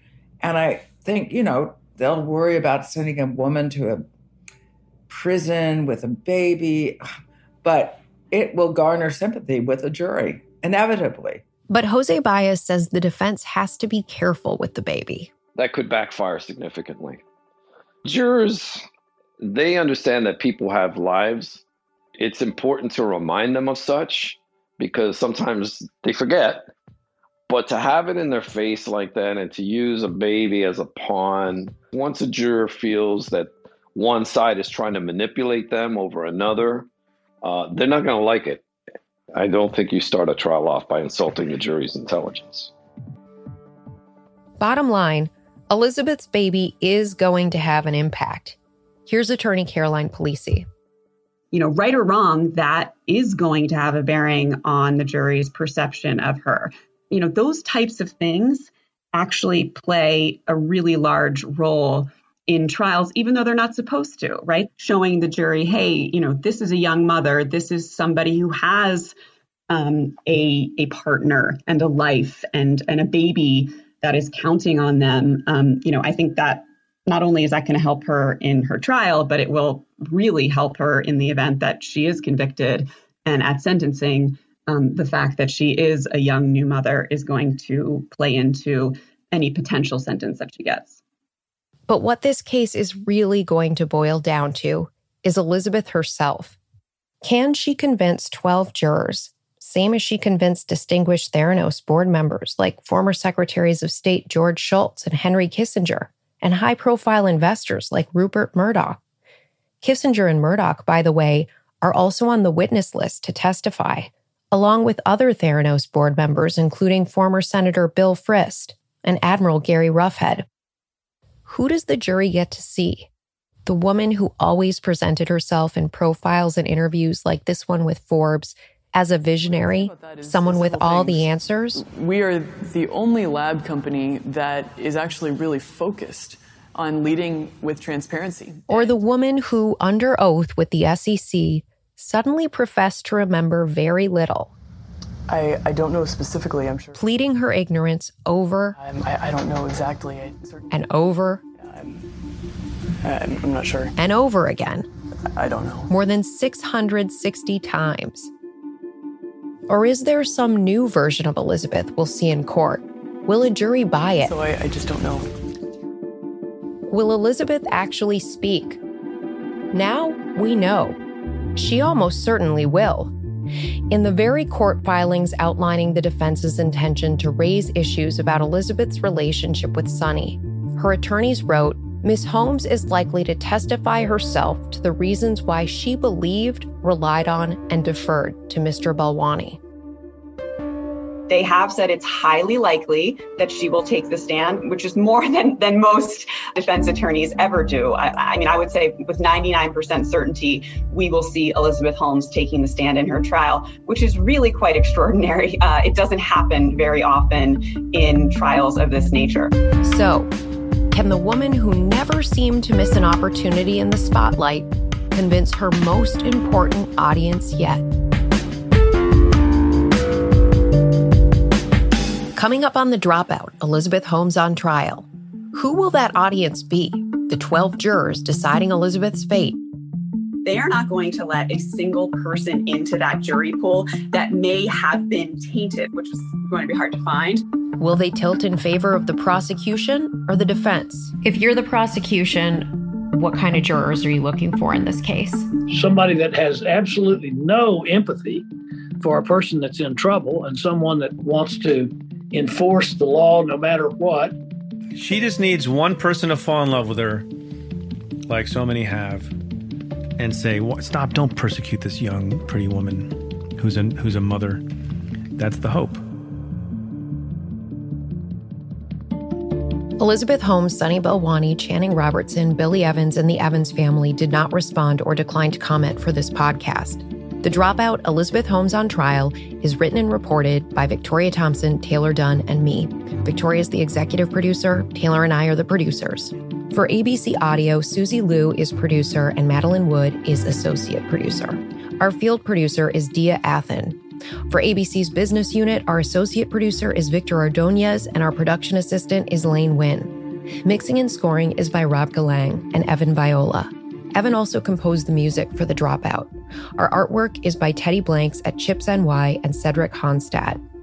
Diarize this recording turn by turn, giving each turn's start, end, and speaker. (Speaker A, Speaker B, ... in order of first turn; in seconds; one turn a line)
Speaker A: 0.4-4.0
Speaker A: 5.1-7.0
Speaker A: 7.6-11.4
Speaker B: 11.7-15.3
Speaker C: 15.6-17.2
Speaker C: 18.0-18.8
Speaker C: 19.4-21.6
Speaker C: 22.2-26.7
Speaker C: 27.5-36.9
Speaker C: 37.4-38.6
Speaker C: 39.3-42.7
Speaker B: 44.6-50.7
Speaker D: 51.5-69.1
Speaker D: 69.7-91.0
Speaker B: 91.9-96.6
Speaker B: 97.2-109.0
Speaker B: 109.8-120.5
Speaker B: 121.5-123.1
Speaker B: 123.7-131.8
Speaker E: 129.4-138.9
Speaker B: 138.7-144.5
Speaker E: 145.3-147.0
Speaker B: 146.9-148.8
Speaker E: 148.8-150.8
Speaker B: 150.7-151.4
Speaker E: 151.6-152.0
Speaker E: 153.0-153.9
Speaker B: 153.9-154.8
Speaker E: 155.3-155.9
Speaker B: 155.9-158.3
Speaker B: 159.7-164.3
Speaker E: 164.2-165.2
Speaker B: 166.9-168.8
Speaker B: 169.7-171.0
Speaker B: 171.6-173.1
Speaker B: 173.9-189.6
Speaker D: 191.3-209.5
Speaker B: 209.8-210.3
Speaker B: 210.9-217.8
Speaker B: 222.3-229.6
Speaker D: 230.4-237.4
Speaker B: 237.8-245.5
Speaker F: 245.7-248.4
Speaker F: 249.0-254.3
Speaker G: 254.9-257.3
Speaker G: 258.3-259.3
Speaker G: 260.2-264.6
Speaker G: 265.4-266.0
Speaker B: 270.0-300.1
Speaker B: 300.6-310.6